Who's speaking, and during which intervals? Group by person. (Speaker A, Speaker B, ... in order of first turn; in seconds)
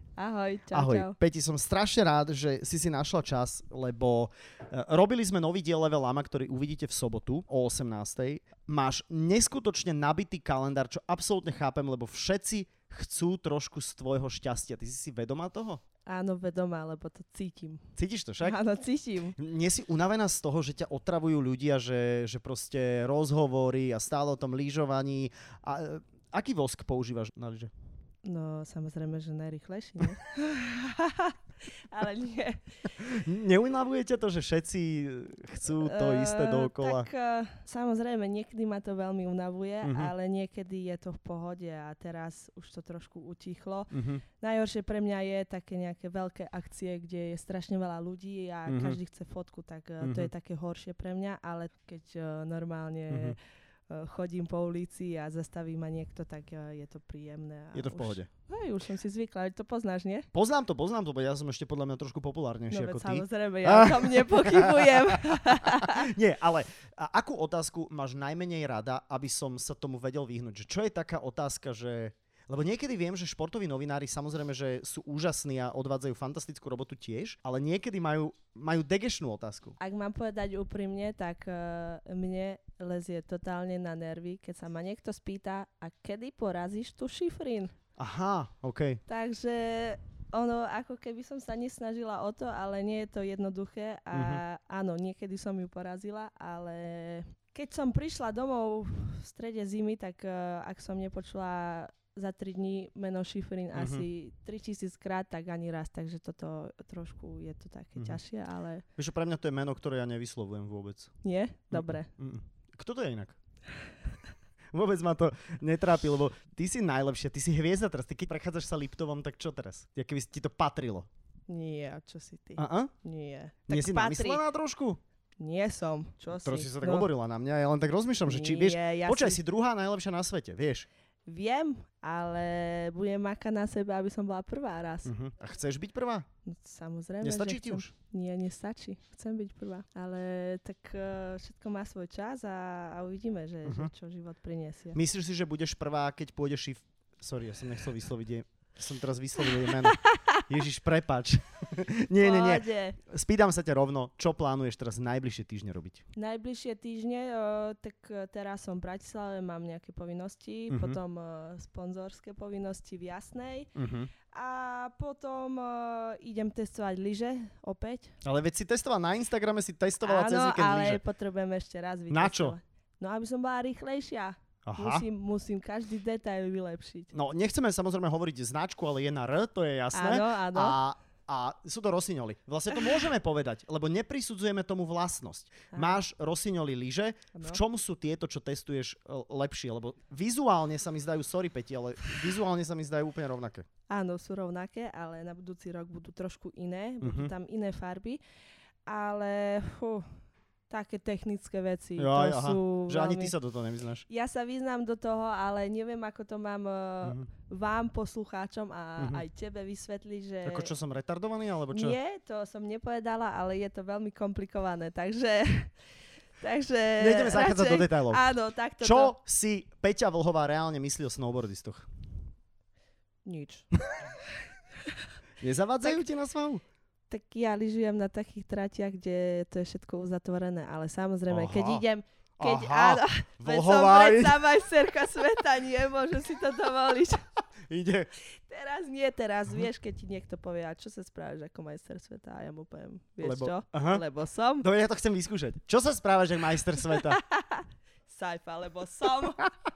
Speaker A: 0.2-1.1, 16.1-17.8, 18.4-19.4, 28.2-32.6, 35.8-53.4, 53.9-60.3, 62.7-66.1, 79.8-87.7, 89.1-108.8, 111.2-112.1, 121.5-124.4, 125.4-127.1, 128.2-129.4, 131.2-135.1, 136.5-145.0, 152.2-153.0, 156.1-163.7, 164.3-168.1, 170.0-177.1, 179.9-180.8, 185.7-186.0, 187.3-187.6, 193.9-198.2, 198.9-200.1, 200.7-203.3, 204.1-210.7, 211.7-215.8, 216.4-219.1, 223.2-224.1, 227.1-237.2, 238.3-244.7, 246.8-249.4
Speaker B: 0.7-15.8, 17.9-18.6, 19.4-27.7, 33.0-37.1, 39.8-40.1, 43.9-44.2, 48.7-49.0, 50.0-50.3, 53.1-53.4, 57.7-58.3, 60.3-79.8, 88.0-89.0, 94.1-94.4, 103.7-104.0, 109.0-111.1, 111.7-113.4, 114.7-121.1, 122.6-122.9, 123.7-125.0, 126.3-130.9, 135.1-136.2, 137.2-137.9, 143.6-143.9, 144.9-156.0, 160.7-161.0, 163.8-164.1, 168.2-171.0, 172.1-172.6, 174.7-175.0, 177.1-193.7, 197.0-197.3, 202.0-204.0, 207.0-207.3, 209.0-209.2, 210.4-212.0, 217.0-218.2, 218.8-221.9, 225.4-226.6, 231.3-231.8, 232.4-234.4, 237.7-238.1, 243.2-244.0, 244.6-247.2